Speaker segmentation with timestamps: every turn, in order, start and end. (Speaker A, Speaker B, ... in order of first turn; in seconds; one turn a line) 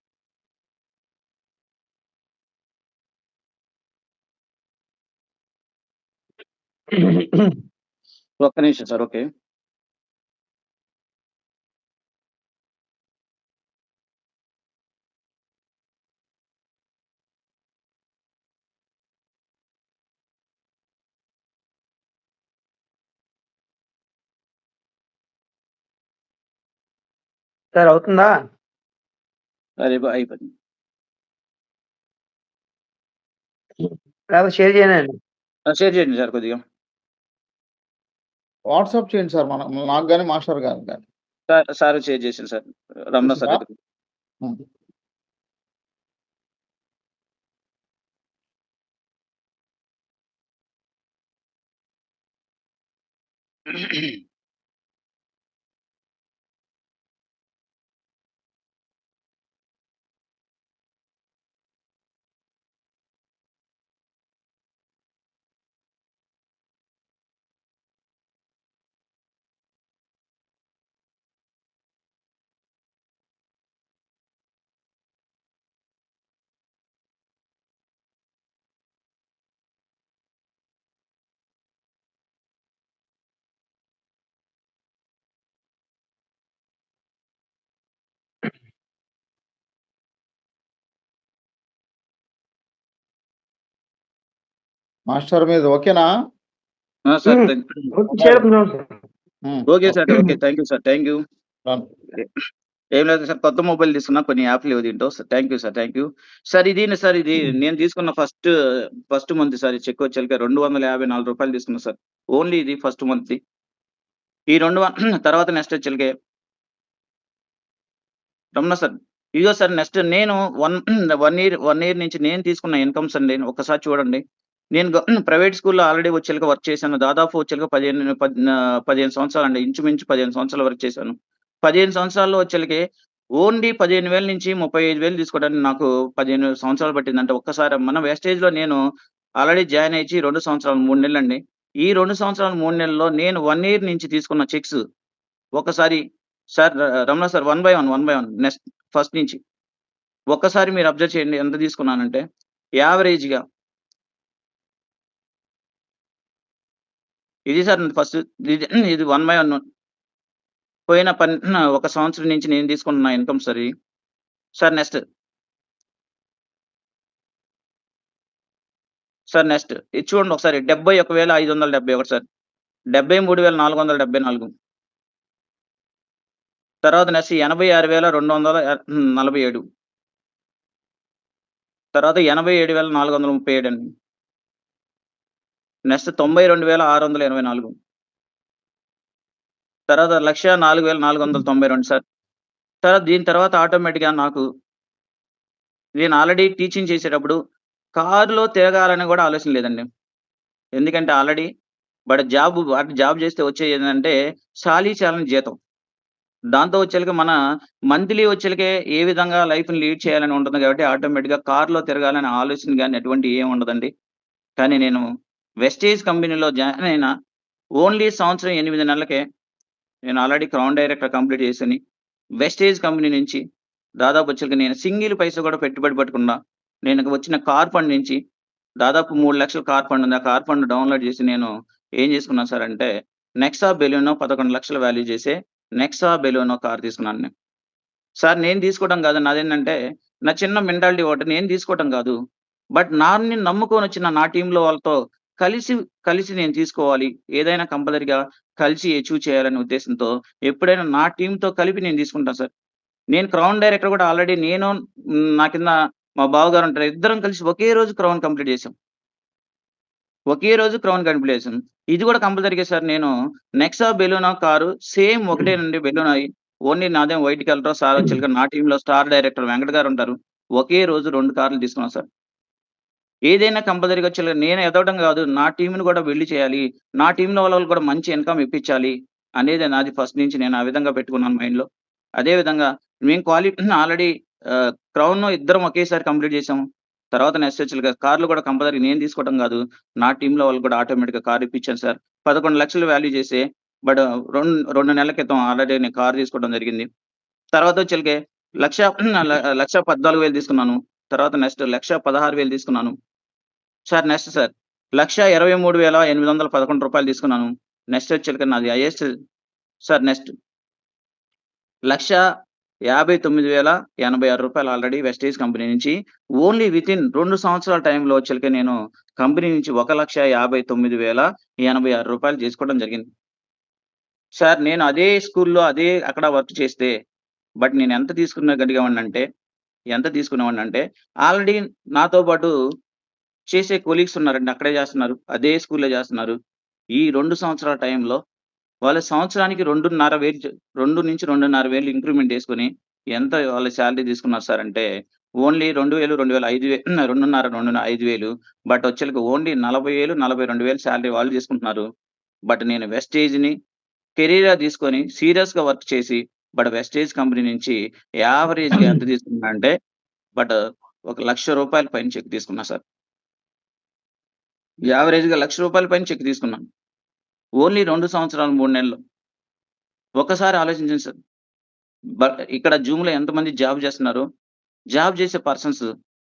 Speaker A: 6.9-7.5
Speaker B: 8.4-9.2
Speaker A: 27.7-28.4
Speaker B: 29.8-30.5
Speaker A: 33.8-35.1
Speaker B: 35.7-36.6
Speaker C: 38.7-41.0
Speaker B: 41.5-43.7
Speaker C: 43.2-43.6
Speaker B: 53.7-54.1
Speaker C: 95.1-96.1
Speaker B: 97.1-97.8
Speaker A: 97.3-98.9
Speaker C: 98.1-98.4
Speaker C: 99.4-99.9
Speaker B: 99.7-101.2
Speaker B: 102.9-113.4
Speaker B: 114.5-116.1
Speaker B: 118.5-124.2
Speaker B: 124.7-132.8
Speaker B: 133.4-138.8
Speaker B: 139.4-144.8
Speaker B: 145.6-146.0
Speaker B: 146.5-149.4
Speaker B: 150.3-152.2
Speaker B: 152.8-153.4
Speaker B: 157.5-159.6
Speaker B: 160.9-163.7
Speaker B: 164.6-165.0
Speaker B: 169.3-172.2
Speaker B: 172.9-174.5
Speaker B: 176.8-179.6
Speaker B: 181.9-183.9
Speaker B: 185.9-187.7
Speaker B: 189.9-192.0
Speaker B: 192.8-194.4
Speaker B: 196.0-197.4
Speaker B: 197.9-199.8
Speaker B: 200.8-201.5
Speaker B: 202.1-205.6
Speaker B: 206.5-207.4
Speaker B: 207.9-213.9
Speaker B: 214.6-215.0
Speaker B: 215.6-217.1
Speaker B: 217.8-219.2
Speaker B: 220.1-221.8
Speaker B: 222.4-223.4
Speaker B: 224.0-226.3
Speaker B: 226.8-228.2
Speaker B: 228.8-232.9
Speaker B: 233.4-237.3
Speaker B: 238.2-242.2
Speaker B: 242.7-252.5
Speaker B: 253.1-254.7
Speaker B: 255.3-258.7
Speaker B: 260.3-272.1
Speaker B: 273.3-281.7
Speaker B: 282.2-296.9
Speaker B: 297.5-302.9
Speaker B: 303.9-309.1
Speaker B: 309.9-310.3
Speaker B: 311.9-312.2
Speaker B: 312.9-323.1
Speaker B: 324.4-326.9
Speaker B: 327.6-329.2
Speaker B: 329.9-332.5
Speaker B: 333.5-336.4
Speaker B: 337.0-338.2
Speaker B: 338.8-344.9
Speaker B: 345.4-351.8
Speaker B: 352.5-353.5
Speaker B: 354.2-359.7
Speaker B: 361.1-362.8
Speaker B: 364.9-366.6
Speaker B: 367.6-369.0
Speaker B: 370.2-371.2
Speaker B: 372.2-374.2
Speaker B: 374.9-375.9